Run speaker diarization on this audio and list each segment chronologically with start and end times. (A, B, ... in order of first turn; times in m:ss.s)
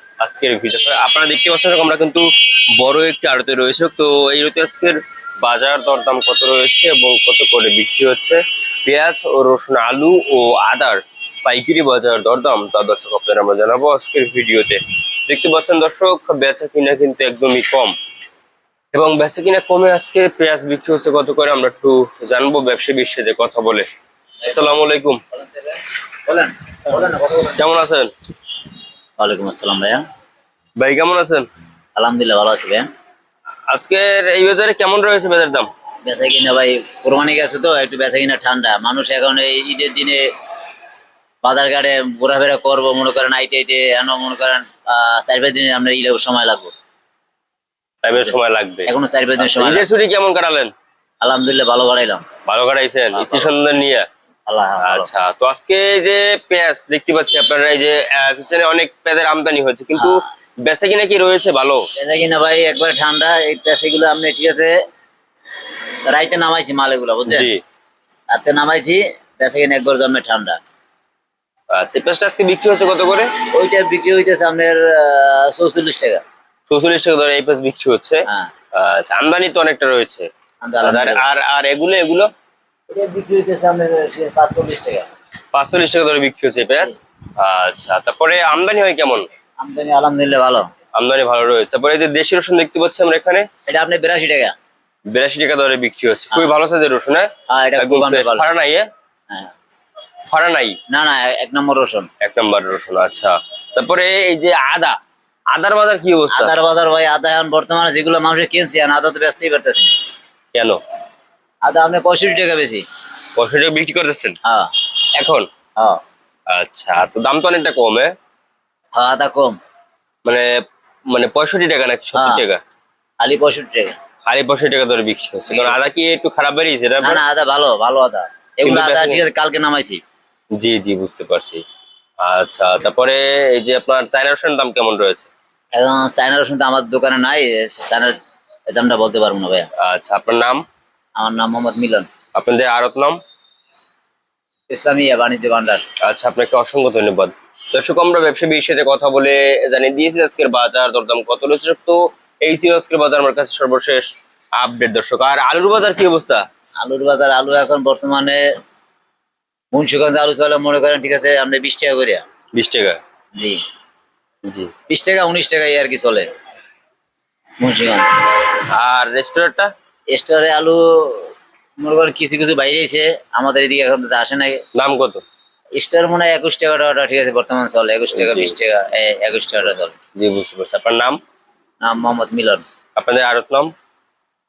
0:00.2-0:02.3 A
0:02.8-0:17.9 A
0:18.9-0:23.9 A
0:24.4-0:25.2 A
0:25.3-0:27.6 B
0:27.4-0:28.1 A
0:29.2-0:30.0 B
0:30.8-0:31.4 A
0:32.0-0:32.9 B
0:33.7-0:35.7 A
0:36.0-0:40.2 B
0:41.4-0:46.7 B
0:48.0-0:50.7 A
0:48.9-0:49.9 B
0:51.2-0:52.2 B
0:52.5-0:54.0 A
0:53.1-0:53.5 B
0:54.5-0:55.1 B
0:54.8-1:01.9 A
0:59.9-1:00.3 B
1:02.0-1:04.7 B
1:06.1-1:07.5 B
1:07.3-1:07.6 A
1:08.3-1:10.6 B
1:11.7-1:13.3 A
1:13.5-1:16.2 B
1:16.7-1:20.3 A
1:20.6-1:21.2 B
1:20.8-1:22.3 A
1:22.9-1:25.1 B
1:25.5-1:29.3 A
1:29.6-1:30.7 B
1:30.9-1:33.4 A
1:33.7-1:34.5 B
1:35.1-1:38.8 A
1:37.5-1:38.5 B
1:40.3-1:40.8 A
1:40.9-1:42.1 B
1:42.2-1:45.0 A
1:45.5-1:46.6 A
1:46.3-1:49.9 B
1:50.5-1:50.8 A
1:51.6-1:52.8 B
1:53.3-1:54.4 A
1:54.4-1:54.7 B
1:55.2-1:55.4 A
1:56.5-1:58.1 A
1:58.9-1:59.6 B
2:01.1-2:02.6 A
2:02.1-2:02.4 B
2:03.2-2:04.0 B
2:04.2-2:07.2 A
2:05.5-2:05.8 B
2:07.0-2:10.0 B
2:08.6-2:09.2 A
2:10.6-2:11.6 A
2:12.2-2:15.3 A
2:15.7-2:18.1 B
2:18.7-2:19.7 B
2:19.8-2:20.6 A
2:21.2-2:22.1 B
2:22.3-2:23.2 A
2:24.7-2:25.8 B
2:26.0-2:36.4 A
2:36.8-2:38.4 B
2:39.7-2:42.2 B
2:42.5-2:43.0 A
2:44.9-2:46.3 B
2:47.6-2:48.1 B
2:48.7-2:49.7 A
2:50.1-2:54.6 B
2:54.7-2:55.2 A
2:55.8-2:59.9 B
2:58.2-2:58.5 A
3:00.2-3:01.2 A
3:01.8-3:02.6 B
3:03.0-3:03.7 A